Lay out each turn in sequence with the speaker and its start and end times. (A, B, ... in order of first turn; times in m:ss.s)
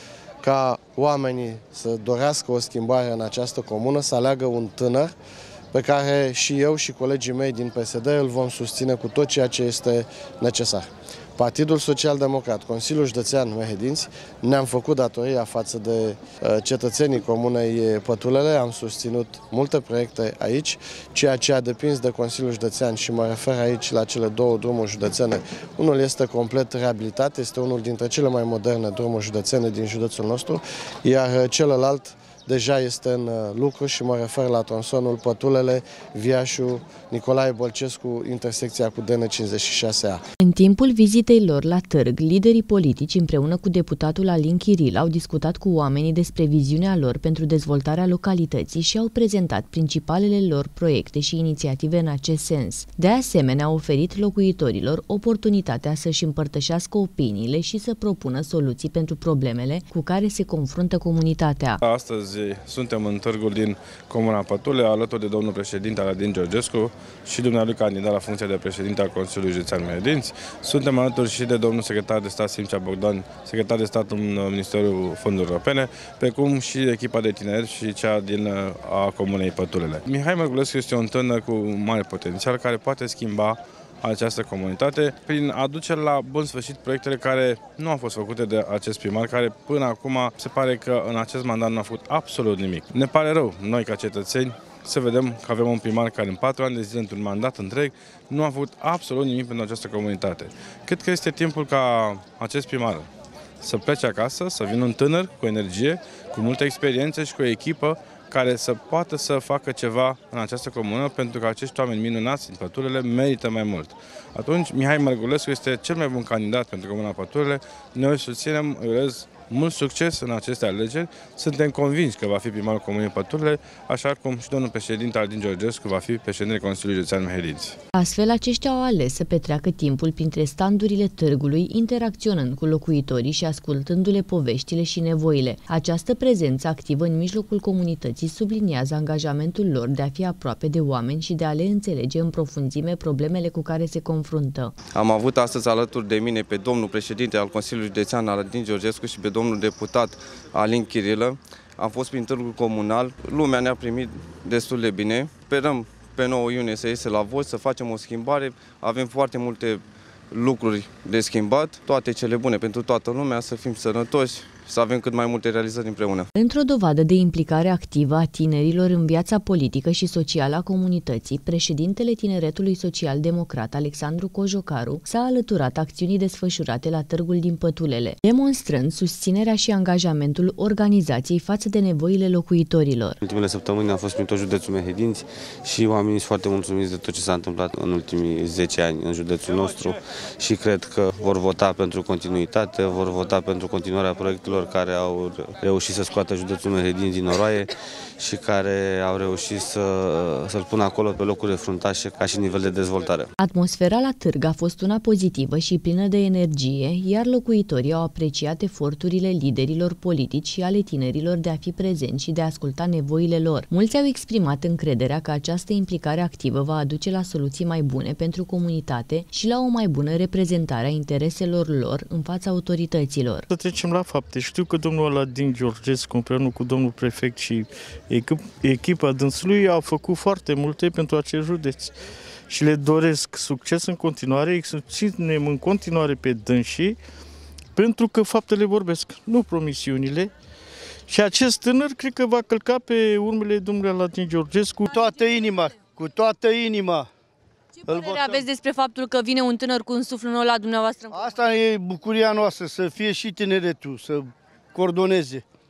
0:00.4-0:05.1 A
0:05.7-0:40.2 A
0:40.4-1:01.8 B
1:01.8-1:43.1 C
1:43.6-2:07.8 C
2:07.9-2:24.7 B
2:24.9-2:46.3 D
2:46.3-3:03.2 B
3:03.2-3:23.3 E
3:23.4-3:43.5 B
3:43.5-3:51.9 F
3:52.5-3:57.0 F
3:57.8-4:00.3 F
4:01.1-4:05.0 F
4:04.9-4:07.1 G
4:07.8-4:11.3 H
4:07.9-4:08.5 G
4:11.1-4:15.4 G